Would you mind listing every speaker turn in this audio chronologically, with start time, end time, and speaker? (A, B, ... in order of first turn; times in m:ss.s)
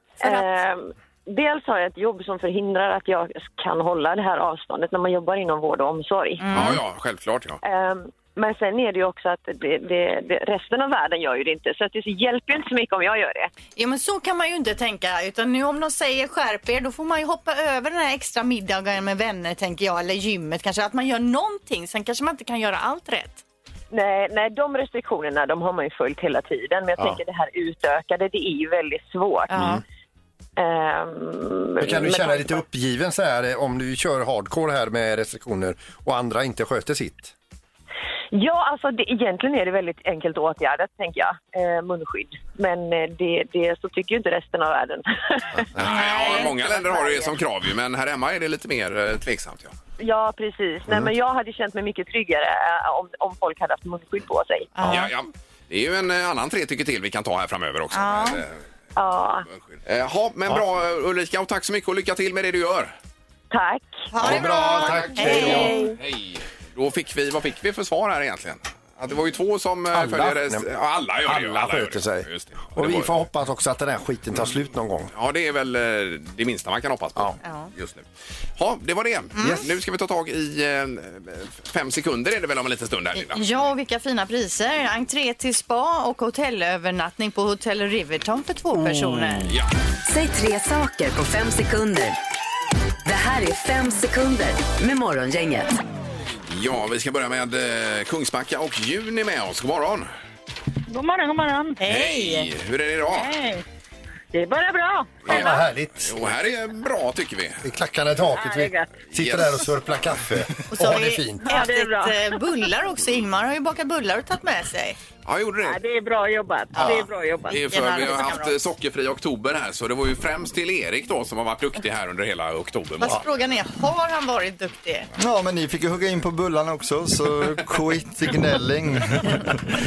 0:00.2-0:00.5 A
0:00.2-0:06.7 B
0:06.4-0:06.8 A
0:06.5-0:07.6 C
0:07.6-0:13.5 B
0:13.7-0:23.4 A
0:23.9-0:29.7 B
0:29.5-0:29.8 A
0:29.5-0:29.8 D
0:30.6-0:32.6 B
0:31.8-0:37.3 D
0:38.3-0:47.3 B
0:45.8-0:49.7 C
0:50.0-0:54.7 B
0:54.7-0:55.1 A
0:54.9-0:58.6 C
0:57.9-0:58.4 A
0:59.0-0:59.4 B
0:59.7-1:02.9 C
1:03.5-1:04.1 B
1:04.1-1:05.9 A
1:04.2-1:05.7 D
1:04.8-1:13.1 C
1:09.9-1:10.6 D
1:11.2-1:15.1 D
1:15.1-1:18.0 C
1:17.4-1:17.7 A
1:18.6-1:23.4 C
1:19.4-1:19.6 A
1:19.4-1:19.6 D
1:23.1-1:29.5 A
1:29.4-1:29.7 C
1:30.0-1:32.2 E
1:33.0-1:35.8 E
1:36.5-1:40.1 C
1:40.9-1:41.8 F
1:41.8-1:42.5 A
1:41.8-1:43.3 C
1:43.1-1:43.6 F
1:44.3-1:45.6 F
1:45.2-1:47.6 C
1:45.3-1:46.1 D
1:47.6-1:51.5 D
1:48.3-1:48.9 F
1:49.1-1:49.6 C
1:50.7-1:55.0 A
1:51.4-1:52.2 F
1:55.2-1:55.8 C
1:55.6-1:57.6 F
1:56.8-2:03.2 C
1:57.7-1:58.5 A
2:03.0-2:05.1 A
2:05.2-2:09.5 G